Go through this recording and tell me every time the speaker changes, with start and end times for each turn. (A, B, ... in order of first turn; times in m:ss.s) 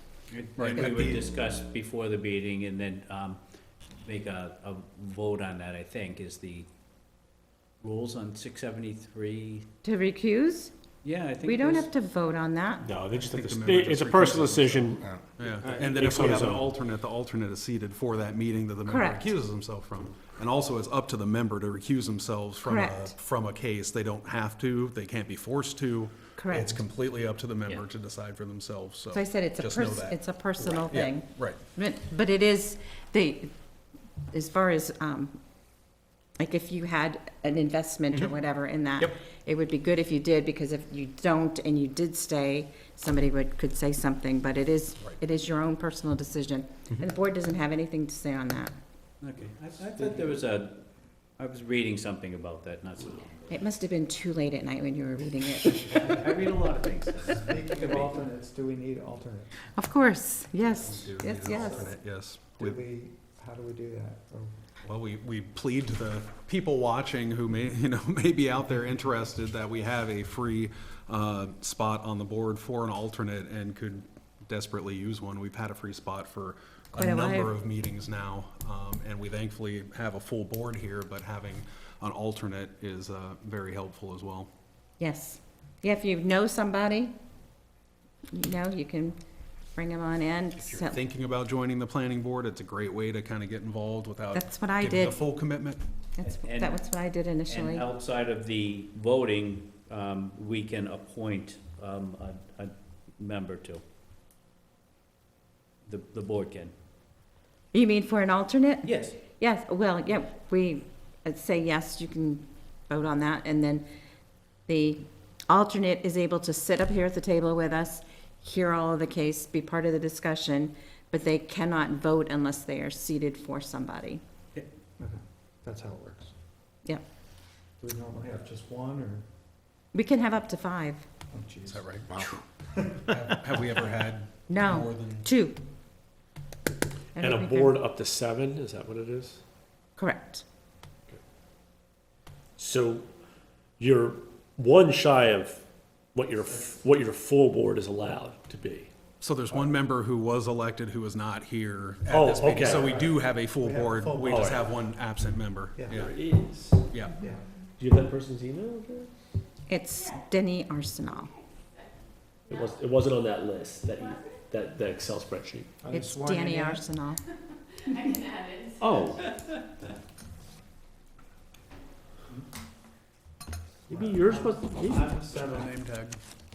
0:00.3-0:03.4 A
0:00.6-0:01.2 B
0:00.8-0:01.1 C
0:04.0-0:06.7 A
0:07.8-0:09.6 A
0:09.8-0:10.7 C
0:11.0-0:11.9 A
0:11.4-0:12.8 C
0:12.8-0:15.0 D
0:13.1-0:31.6 B
0:15.6-0:16.0 E
0:15.9-0:16.7 D
0:18.9-0:19.3 C
0:22.6-0:23.1 C
0:26.4-0:26.8 C
0:29.1-0:33.5 C
0:34.3-0:35.4 C
0:36.4-0:48.7 C
0:49.2-0:50.8 A
0:51.4-0:53.6 A
0:53.5-0:56.0 C
0:55.8-0:58.2 A
0:57.3-0:59.5 E
0:59.7-1:01.9 C
1:00.7-1:02.8 B
1:01.4-1:01.9 E
1:02.6-1:04.6 E
1:04.8-1:24.5 B
1:16.9-1:17.5 C
1:25.0-1:27.1 C
1:28.3-1:29.2 C
1:29.7-1:31.0 C
1:30.7-1:35.8 B
1:34.3-1:35.2 C
1:36.2-1:37.8 C
1:36.2-1:36.8 A
1:37.5-1:43.8 A
1:45.8-1:46.7 A
1:47.7-1:53.8 C
1:48.8-1:49.2 A
1:54.7-2:04.2 C
2:05.0-2:06.3 E
2:07.8-2:09.2 E
2:09.9-2:11.0 C
2:11.3-2:12.0 E
2:11.6-2:12.1 B
2:12.7-2:13.1 E
2:13.1-2:15.3 B
2:14.5-2:15.6 C
2:17.1-2:17.7 C
2:17.2-2:19.4 D
2:20.0-2:20.4 C
2:22.6-2:23.1 D
2:23.8-2:28.9 D
2:29.2-2:36.2 B
2:32.1-2:33.0 D
2:32.6-2:34.7 E
2:35.8-2:36.1 E
2:35.9-2:37.0 D
2:36.9-2:37.1 B
2:37.1-2:37.4 E
2:37.8-2:39.1 D
2:39.7-2:41.3 C
2:42.5-2:45.7 D
2:45.8-2:46.9 E
2:45.9-2:47.2 C
2:48.8-2:49.2 D
2:53.9-2:55.7 E
2:54.0-2:55.0 D
2:55.2-2:56.2 B